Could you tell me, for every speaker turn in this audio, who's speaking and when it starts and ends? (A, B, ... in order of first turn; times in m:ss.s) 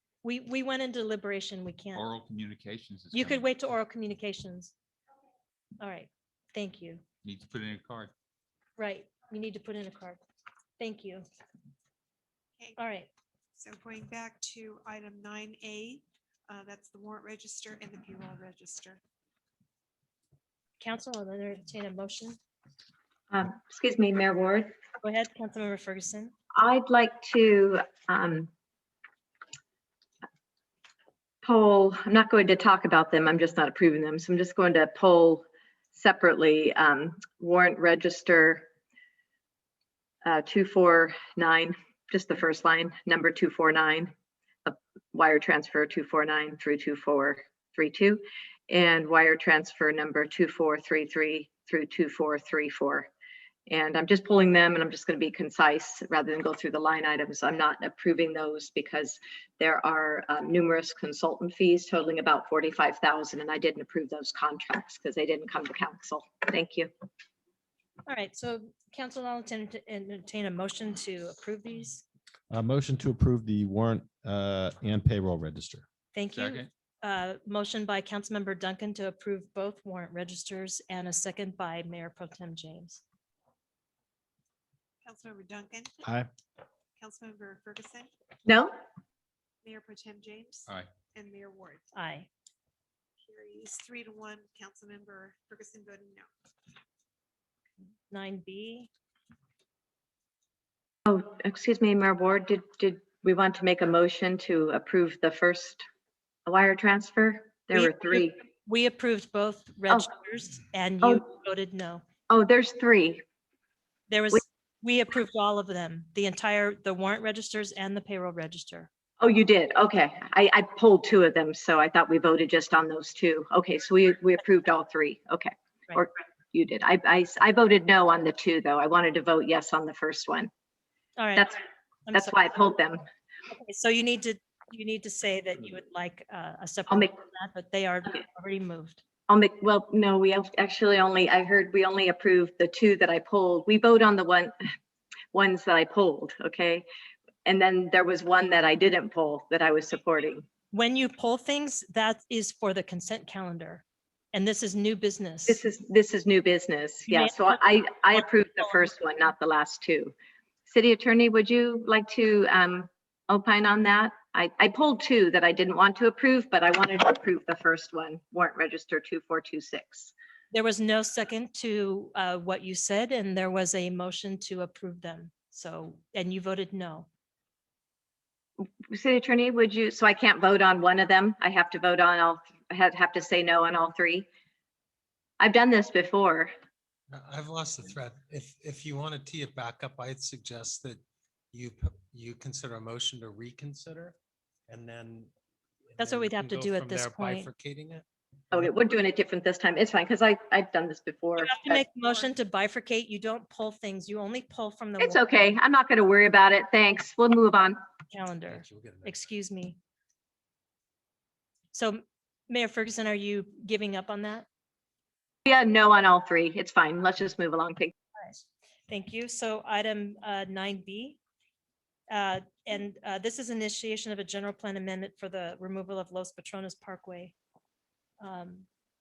0:00.2-0:02.0 A
0:01.9-0:03.5 B
0:03.1-0:04.7 A
0:05.8-0:07.0 A
0:07.2-0:08.1 B
0:08.8-0:10.2 A
0:10.8-0:11.2 A
0:12.8-0:13.1 A
0:13.6-0:19.0 C
0:20.8-0:22.4 A
0:23.3-0:24.7 D
0:25.0-0:26.3 A
0:26.6-0:28.5 D
0:31.4-0:38.6 D
0:40.2-0:44.1 D
0:44.6-0:53.1 D
0:53.7-1:06.9 D
1:08.1-1:12.0 A
1:12.5-1:15.9 E
1:16.1-1:23.0 A
1:16.4-1:16.7 B
1:25.0-1:25.9 C
1:27.0-1:28.1 C
1:28.5-1:28.7 D
1:29.6-1:31.8 C
1:31.9-1:32.3 A
1:33.2-1:36.3 C
1:38.1-1:38.9 A
1:41.1-1:45.8 D
1:46.5-1:48.4 D
1:47.7-1:52.0 A
1:52.3-1:53.2 D
1:54.1-1:58.9 A
1:59.2-2:10.5 D
2:11.2-2:11.5 A
2:12.1-2:12.4 A
2:12.1-2:13.0 D
2:13.5-2:19.0 A
2:19.3-2:24.6 D
2:25.3-2:26.8 D
2:27.4-2:30.4 D
2:30.7-2:35.6 A
2:35.5-2:40.1 D
2:37.1-2:38.8 A
2:40.7-2:50.1 D
2:50.5-2:57.1 A
2:58.6-3:04.3 D
3:05.4-3:06.5 D
3:07.1-3:14.2 F
3:14.7-3:15.3 F
3:15.9-3:18.0 F
3:16.0-3:17.5 A
3:18.5-3:21.8 D
3:21.4-3:25.6 A
3:25.0-3:27.8 D
3:28.1-3:29.8 A
3:28.5-3:29.2 F
3:31.7-3:34.5 A
3:35.5-3:37.9 D
3:38.2-3:41.2 A
3:42.1-3:47.3 A
3:48.2-3:48.7 A